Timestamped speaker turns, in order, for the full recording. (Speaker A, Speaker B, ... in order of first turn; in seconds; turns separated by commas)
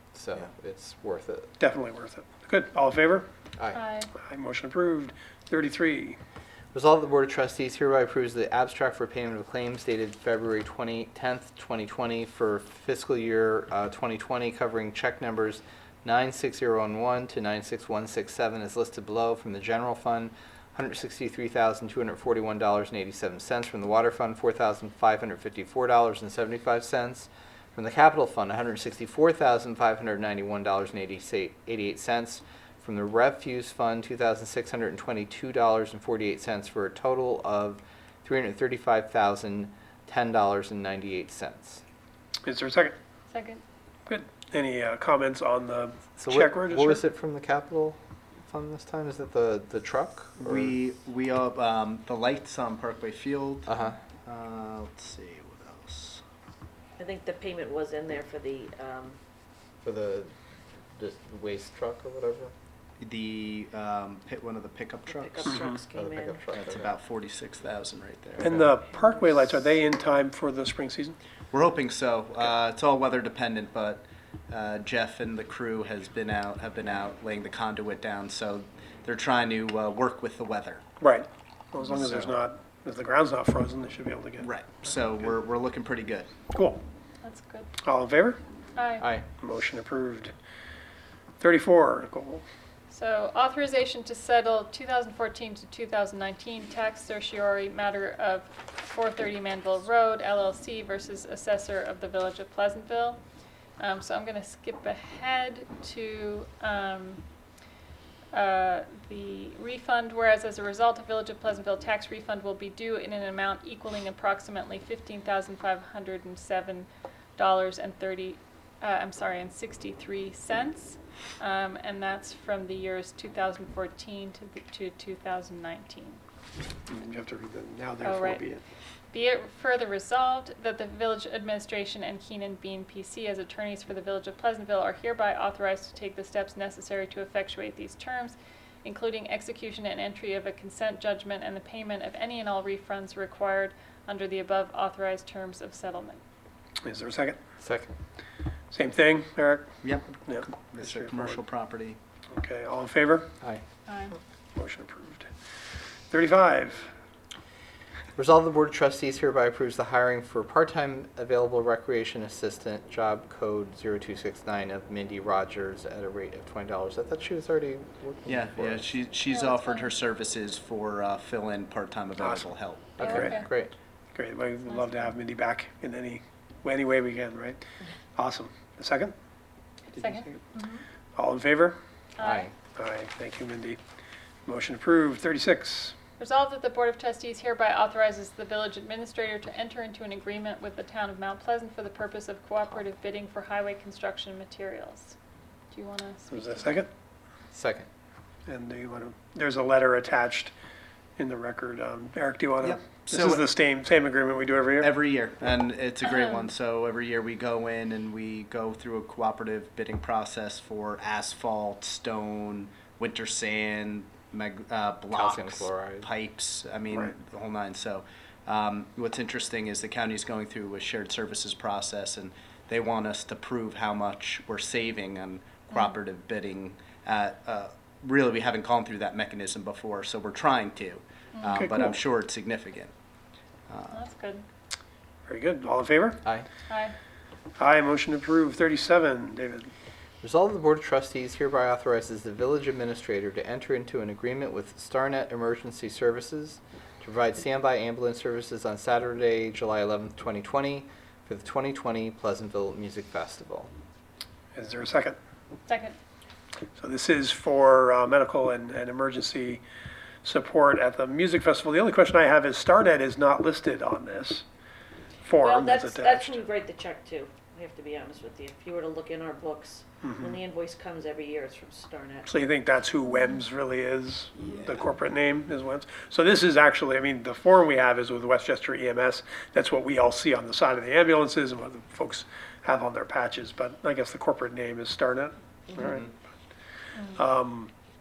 Speaker A: 0.1-1.5, Speaker B: 1.6-3.3, Speaker C: 3.7-4.1, Speaker B: 4.2-6.2, Speaker A: 6.7-41.8, Speaker B: 42.4-43.0, Speaker C: 43.3-43.6, Speaker B: 44.1-47.0, Speaker A: 46.2-50.8, Speaker D: 50.4-56.2, Speaker A: 53.7-54.0, Speaker E: 57.0-59.2, Speaker A: 59.8-60.4, Speaker A: 60.9-62.5, Speaker D: 63.0-65.7, Speaker E: 65.1-66.5, Speaker A: 65.9-66.9, Speaker D: 66.7-68.7, Speaker B: 68.4-71.2, Speaker D: 71.5-80.8, Speaker B: 81.0-84.5, Speaker D: 84.4-86.3, Speaker B: 86.5-86.8, Speaker C: 87.2-87.7, Speaker B: 87.8-88.4, Speaker C: 88.8-89.1, Speaker A: 89.0-89.3, Speaker B: 89.4-90.3, Speaker B: 91.4-92.5, Speaker C: 92.9-103.2, Speaker C: 103.8-107.2, Speaker C: 108.3-126.2, Speaker B: 126.9-128.6, Speaker C: 128.0-128.4, Speaker C: 129.1-146.2, Speaker B: 146.8-147.4, Speaker A: 147.6-147.9, Speaker B: 148.7-149.7, Speaker D: 149.8-152.0, Speaker B: 150.2-151.4, Speaker B: 152.3-153.3, Speaker C: 153.9-154.2, Speaker B: 154.6-155.3, Speaker B: 156.1-156.9, Speaker A: 158.2-168.9, Speaker D: 168.3-173.0, Speaker C: 169.3-169.9, Speaker B: 172.2-172.5, Speaker A: 173.0-173.7, Speaker C: 173.0-173.5, Speaker B: 173.0-173.4, Speaker B: 174.1-177.6, Speaker C: 174.7-175.1, Speaker B: 178.2-179.1, Speaker C: 179.9-180.8, Speaker B: 181.2-181.8, Speaker C: 182.2-182.5, Speaker A: 182.2-182.5, Speaker B: 182.8-183.8, Speaker B: 184.5-185.9, Speaker C: 186.2-195.2, Speaker C: 195.7-196.8, Speaker B: 196.3-196.9, Speaker A: 197.5-197.9, Speaker B: 198.5-200.5, Speaker B: 201.2-204.9, Speaker D: 202.6-203.5, Speaker D: 204.8-232.9, Speaker A: 215.1-216.1, Speaker B: 231.5-232.0, Speaker D: 233.7-234.0, Speaker C: 233.9-234.4, Speaker B: 235.3-236.2, Speaker A: 236.2-236.5, Speaker C: 236.7-236.9, Speaker B: 237.6-239.7, Speaker A: 240.2-253.7, Speaker B: 254.6-255.2, Speaker C: 255.7-256.0, Speaker B: 256.8-259.6, Speaker B: 260.2-264.4, Speaker B: 265.2-266.4, Speaker E: 265.4-272.3, Speaker B: 270.0-270.3, Speaker B: 272.3-286.1, Speaker B: 287.1-287.7